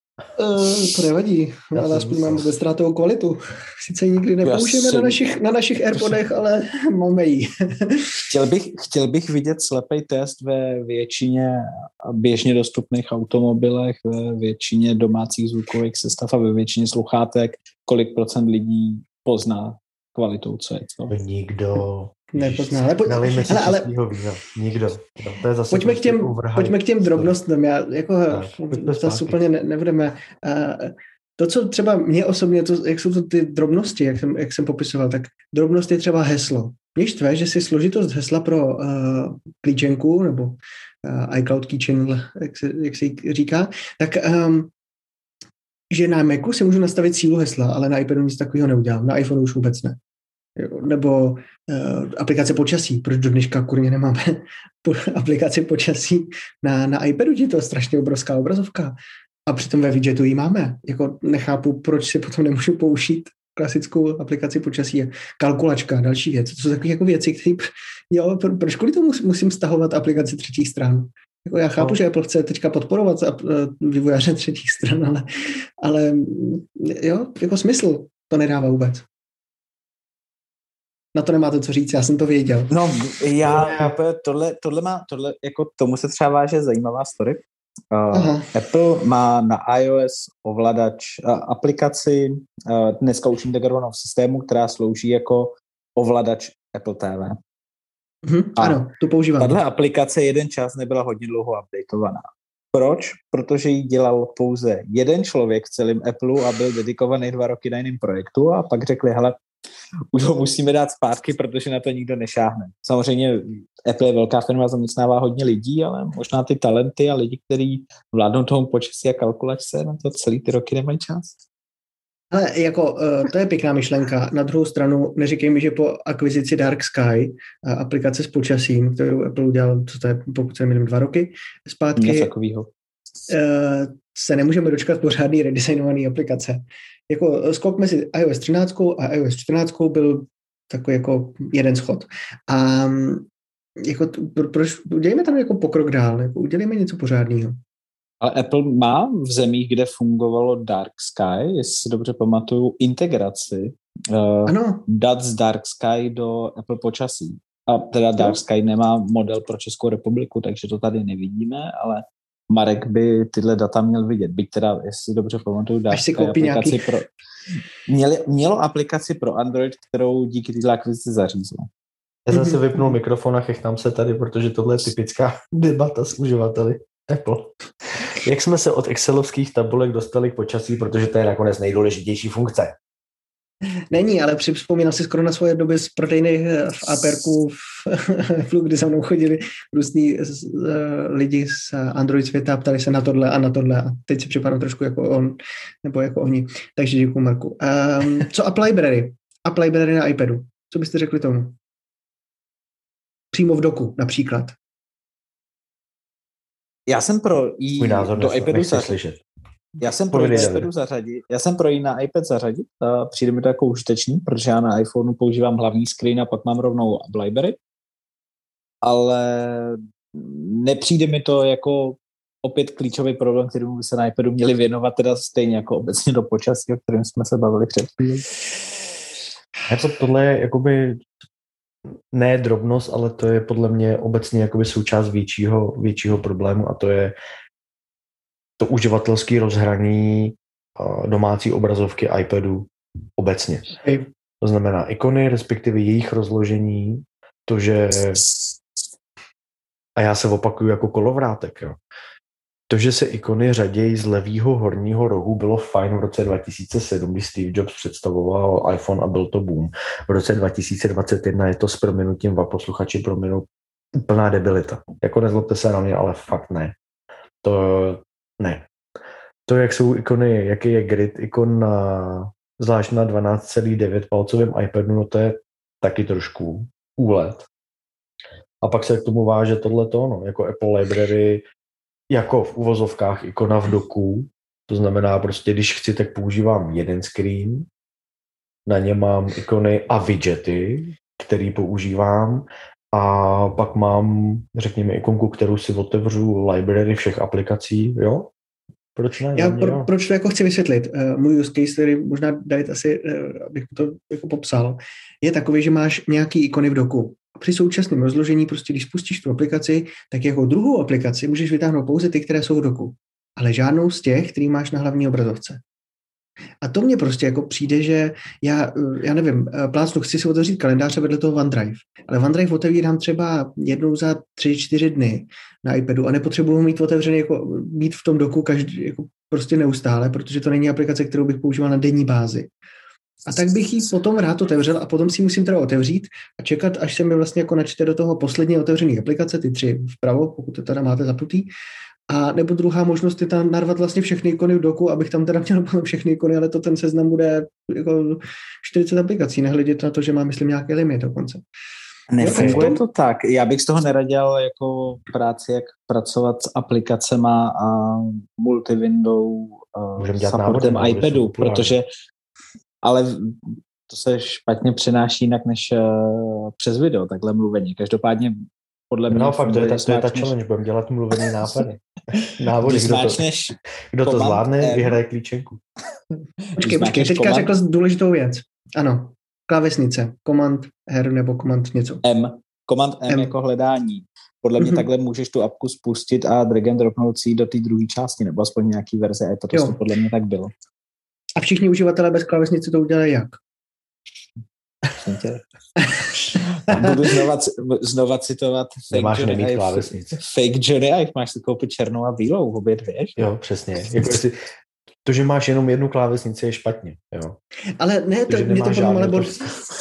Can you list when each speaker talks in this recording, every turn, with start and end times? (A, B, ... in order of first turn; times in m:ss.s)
0:00.4-0:08.2 A
0:01.7-0:02.5 B
0:04.4-0:05.2 C
0:08.3-0:21.1 C
0:21.1-0:27.4 B
0:22.3-0:23.9 A
0:25.7-0:44.7 A
0:28.3-0:29.4 B
0:45.9-0:50.0 A
0:50.6-0:59.0 A
0:59.5-1:15.3 A
1:15.8-1:19.1 A
1:21.2-1:22.7 A
1:22.7-1:37.4 C
1:23.4-1:24.0 B
1:28.1-1:28.5 A
1:38.2-1:39.6 A
1:38.6-1:38.8 C
1:39.4-1:49.4 C
1:50.1-2:01.3 C
2:02.3-2:12.3 A
2:12.0-2:12.7 C
2:13.3-2:23.3 A
2:23.8-2:27.6 A
2:28.2-2:47.1 C
2:34.5-2:34.8 A
2:45.9-2:46.9 A
2:47.9-2:51.7 C
2:52.3-3:02.8 B
2:52.3-2:52.9 A
3:03.9-3:21.6 A
3:23.3-3:24.6 A
3:26.9-3:29.0 C
3:27.8-3:29.2 B
3:29.8-3:37.6 C
3:30.1-3:30.7 B
3:38.8-3:48.0 C
3:49.7-3:51.0 B
3:52.1-3:57.1 B
3:58.6-4:03.7 B
4:03.8-4:04.1 A
4:04.4-4:08.2 B
4:10.0-4:11.8 B
4:12.7-4:26.8 B
4:27.4-4:28.7 B
4:29.5-4:37.5 B
4:38.6-4:41.4 B
4:42.1-4:47.7 B
4:48.7-4:58.3 B
4:59.0-4:59.9 B
4:59.4-5:15.6 A
5:16.6-5:32.5 A
5:33.3-5:41.5 A
5:42.1-5:51.4 A
5:52.1-6:01.9 C
5:52.2-5:52.8 A
5:52.2-5:52.8 B
6:00.0-6:01.8 B
6:02.8-6:10.3 C
6:09.1-6:11.8 B
6:12.2-6:15.0 C
6:12.4-6:13.2 B
6:13.9-6:15.6 B
6:16.6-6:17.5 C
6:16.6-6:22.0 A
6:22.0-6:30.5 C
6:23.1-6:23.3 A
6:24.6-6:24.9 A
6:29.5-6:29.8 A
6:31.4-6:33.4 A
6:34.9-6:35.4 C
6:35.8-6:37.2 A
6:36.7-6:43.3 C
6:38.9-6:40.2 B
6:43.2-6:44.4 B
6:45.0-6:47.4 B
6:47.8-6:49.4 A
6:48.3-6:49.5 B